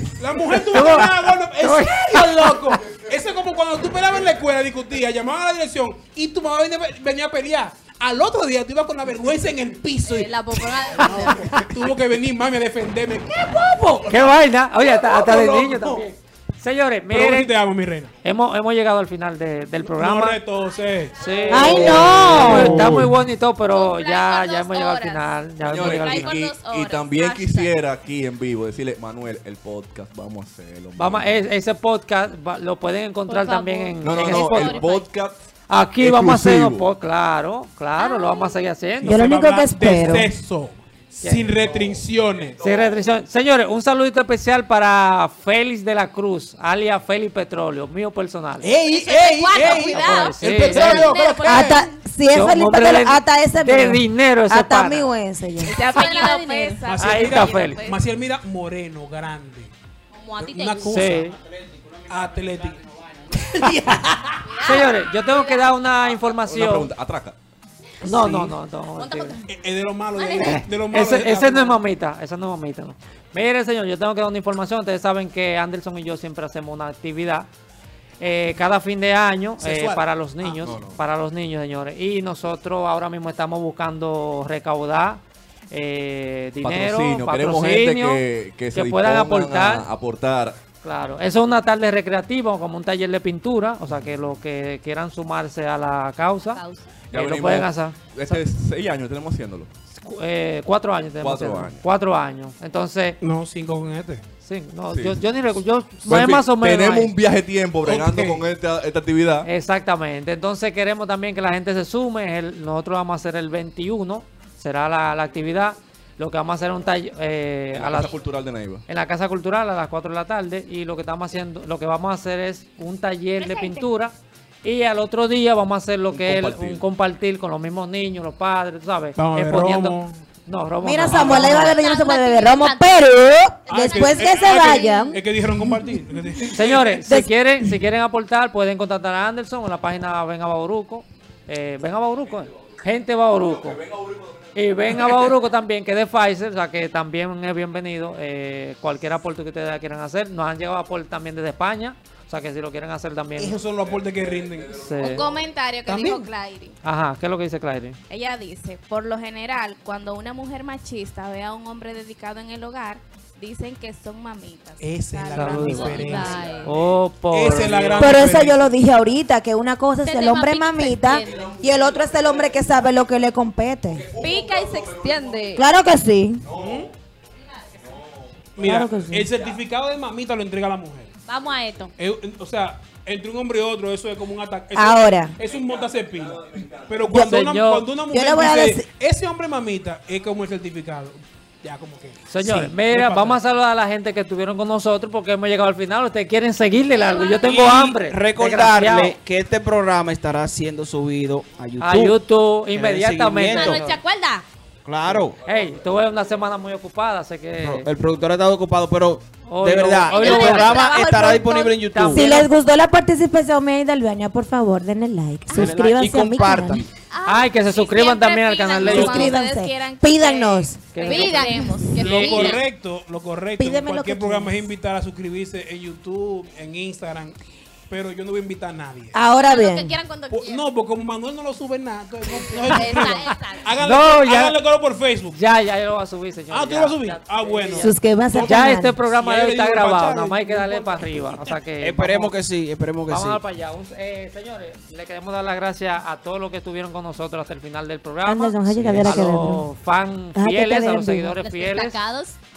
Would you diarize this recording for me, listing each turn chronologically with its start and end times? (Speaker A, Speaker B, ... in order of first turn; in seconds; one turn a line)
Speaker A: 0.2-16.1
Speaker B: 0.7-2.4
Speaker C: 2.8-4.4
Speaker D: 10.1-11.7
Speaker B: 14.1-17.5
Speaker A: 17.1-18.1
Speaker B: 18.2-20.4
Speaker A: 19.8-22.7
Speaker B: 21.2-26.4
Speaker E: 21.5-23.1
Speaker C: 22.0-22.4
Speaker F: 23.7-27.7
Speaker C: 25.6-31.5
Speaker B: 31.0-34.8
Speaker D: 33.3-35.1
Speaker C: 34.0-35.4
Speaker B: 35.7-39.3
Speaker C: 36.0-36.9
Speaker D: 38.0-38.6
Speaker A: 39.0-42.6
Speaker E: 39.0-40.3
Speaker B: 41.2-41.5
Speaker C: 41.5-43.2
Speaker B: 42.6-48.7
Speaker A: 48.6-51.9
Speaker D: 48.8-51.9
Speaker B: 49.9-51.2
Speaker F: 50.7-51.8
Speaker E: 51.4-55.8
Speaker B: 52.3-55.1
Speaker D: 55.6-56.9
Speaker F: 55.6-58.0
Speaker A: 56.9-59.7
Speaker B: 57.0-57.8
Speaker D: 60.1-61.1
Speaker A: 60.4-61.3
Speaker B: 60.8-61.4
Speaker G: 61.1-63.6
Speaker A: 62.1-62.8
Speaker A: 63.3-64.5
Speaker D: 64.5-65.7
Speaker F: 64.5-65.6
Speaker B: 64.6-66.9
Speaker C: 66.0-67.4
Speaker B: 68.0-69.4
Speaker A: 68.0-68.5
Speaker D: 69.0-69.5
Speaker A: 69.5-71.8
Speaker D: 70.2-70.7
Speaker B: 70.4-77.5
Speaker B: 78.2-88.2
Speaker A: 79.6-80.7
Speaker C: 80.6-81.0
Speaker C: 86.6-90.6
Speaker B: 88.8-89.9
Speaker B: 90.8-98.4
Speaker D: 96.5-97.0
Speaker C: 97.1-99.7
Speaker B: 100.0-103.2
Speaker C: 101.2-101.8
Speaker A: 103.2-104.2
Speaker B: 104.4-107.1
Speaker C: 104.9-105.3
Speaker C: 106.0-109.5
Speaker A: 107.8-108.5
Speaker B: 109.5-118.2
Speaker C: 117.7-118.8
Speaker B: 118.9-131.8
Speaker D: 123.4-123.8
Speaker C: 126.1-126.9
Speaker A: 129.2-130.2
Speaker E: 130.8-136.5
Speaker D: 131.1-133.1
Speaker D: 133.7-135.2
Speaker A: 133.7-137.1
Speaker B: 136.5-143.8
Speaker E: 137.1-137.7
Speaker C: 142.2-145.5
Speaker B: 144.6-153.6
Speaker A: 153.4-154.7
Speaker C: 153.6-155.5
Speaker B: 154.8-155.2
Speaker F: 155.0-156.8
Speaker A: 155.9-156.3
Speaker B: 156.8-158.0
Speaker F: 158.1-166.7
Speaker A: 164.8-166.5
Speaker B: 165.3-168.0
Speaker D: 165.6-166.7
Speaker C: 166.2-166.7
Speaker A: 167.3-168.7
Speaker C: 167.5-168.3
Speaker E: 168.0-174.1
Speaker D: 170.0-171.5
Speaker C: 171.2-173.1
Speaker C: 173.9-175.7
Speaker D: 174.2-175.6
Speaker E: 175.6-176.5
Speaker C: 176.4-176.9
Speaker A: 176.5-176.9
Speaker C: 177.8-179.6
Speaker A: 178.6-181.1
Speaker E: 178.6-179.3
Speaker D: 181.3-181.9
Speaker A: 182.0-193.4
Speaker E: 184.8-185.4
Speaker C: 185.4-187.2
Speaker E: 187.1-187.3
Speaker B: 187.1-187.9
Speaker E: 188.1-188.9
Speaker B: 192.3-199.2
Speaker D: 196.9-197.5
Speaker G: 197.4-203.8
Speaker B: 201.8-204.0
Speaker D: 203.5-204.4
Speaker G: 204.9-205.4
Speaker C: 205.1-206.8
Speaker B: 205.4-207.9
Speaker G: 207.6-212.3
Speaker B: 209.4-211.0
Speaker D: 210.1-212.4
Speaker B: 211.9-212.4
Speaker E: 212.1-216.8
Speaker D: 215.5-215.7
Speaker G: 215.5-216.9
Speaker D: 217.1-218.7
Speaker B: 217.3-219.3
Speaker F: 217.9-222.6
Speaker E: 218.8-221.0
Speaker B: 220.9-222.5
Speaker D: 221.0-222.6
Speaker A: 222.0-227.4
Speaker E: 223.6-224.7
Speaker A: 227.9-229.2
Speaker E: 229.1-230.0
Speaker D: 229.4-230.7
Speaker A: 230.3-235.4
Speaker D: 232.3-233.7
Speaker B: 233.8-234.6
Speaker B: 235.3-237.9
Speaker A: 236.5-241.6
Speaker E: 237.8-239.0
Speaker B: 238.5-242.3
Speaker G: 241.8-243.4
Speaker B: 243.1-252.0
Speaker E: 248.2-249.7
Speaker E: 250.3-251.4
Speaker D: 251.4-252.4